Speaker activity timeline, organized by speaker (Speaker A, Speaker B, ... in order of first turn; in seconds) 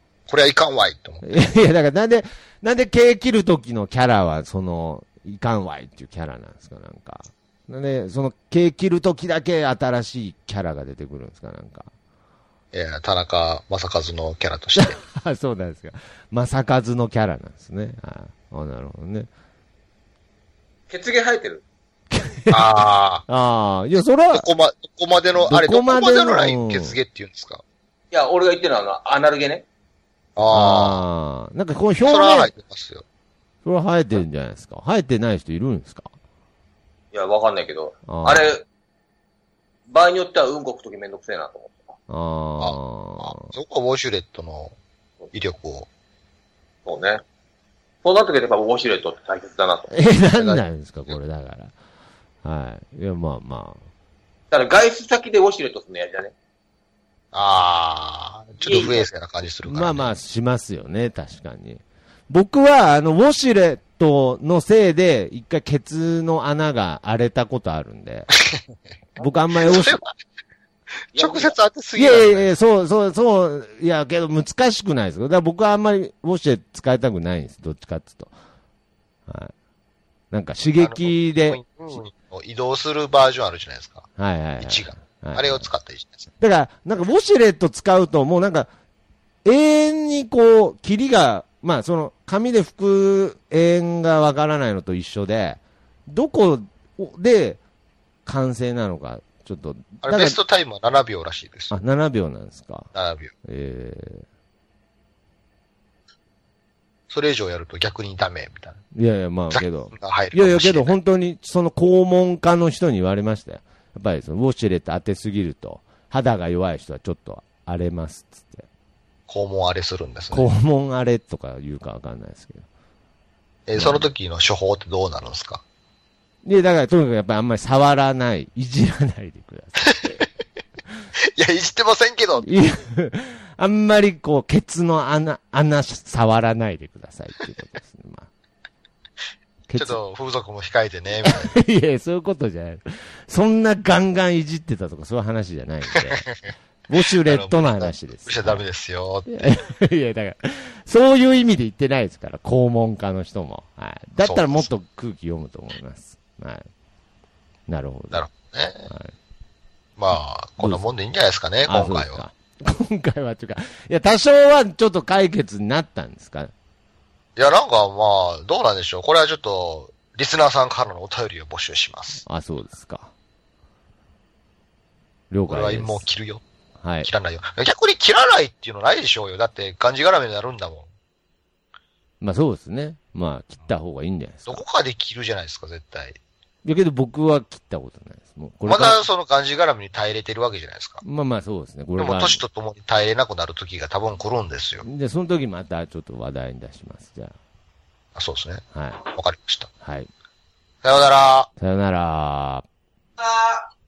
Speaker A: 0.3-1.3, 12.7-15.0, 22.5-23.2, 24.3-27.6, 30.4-31.1, 32.0-33.0, 42.6-44.7, 45.3-45.9, 50.3-51.2, 57.3-60.2, 69.6-70.1, 71.1-72.5, 80.8-84.0, 84.6-86.3, 100.0-101.7, 102.9-103.3, 107.1-108.8, 109.5-111.0, 119.3-120.5, 123.7-125.6, 129.8-130.2, 131.4-132.5, 139.8-141.6, 147.3-149.5, 154.2-154.7, 158.1-158.9, 160.0-162.2, 167.4-172.2, 175.5-176.4, 177.0-180.9, 184.5-186.2, 188.7-191.0, 192.0-194.9, 198.2-199.7, 200.8-201.5
Speaker B: 1.2-11.9, 14.8-19.3, 22.1-22.7, 23.3-24.5, 25.3-27.0, 30.5-32.5, 33.6-36.1, 38.1-38.5, 42.1-43.4, 49.9-51.8, 52.4-53.8, 59.7-68.3, 69.2-70.0, 72.0-78.3, 79.3-79.5, 80.3-81.6, 84.2-85.7, 86.4-88.7, 89.5-97.6, 98.3-100.4, 101.7-102.9, 103.5-104.2, 108.9-118.7, 120.3-122.7, 123.8-124.1, 126.4-130.0, 132.4-138.3, 139.7-140.0, 141.2-146.3, 146.9-148.6, 149.3-156.7, 157.7-158.2, 160.6-160.8, 161.7-166.5, 172.3-173.1, 175.3-176.1, 176.8-177.1, 182.2-184.6, 186.7-189.1, 191.0-192.4, 194.8-197.3, 198.7-199.0, 199.8-200.1, 201.6-202.7
Speaker C: 20.9-21.6, 28.1-29.6, 37.1-38.6, 39.9-41.9, 46.9-47.2, 48.0-49.9, 54.5-56.3, 58.6-59.1, 71.1-71.5, 203.2-203.6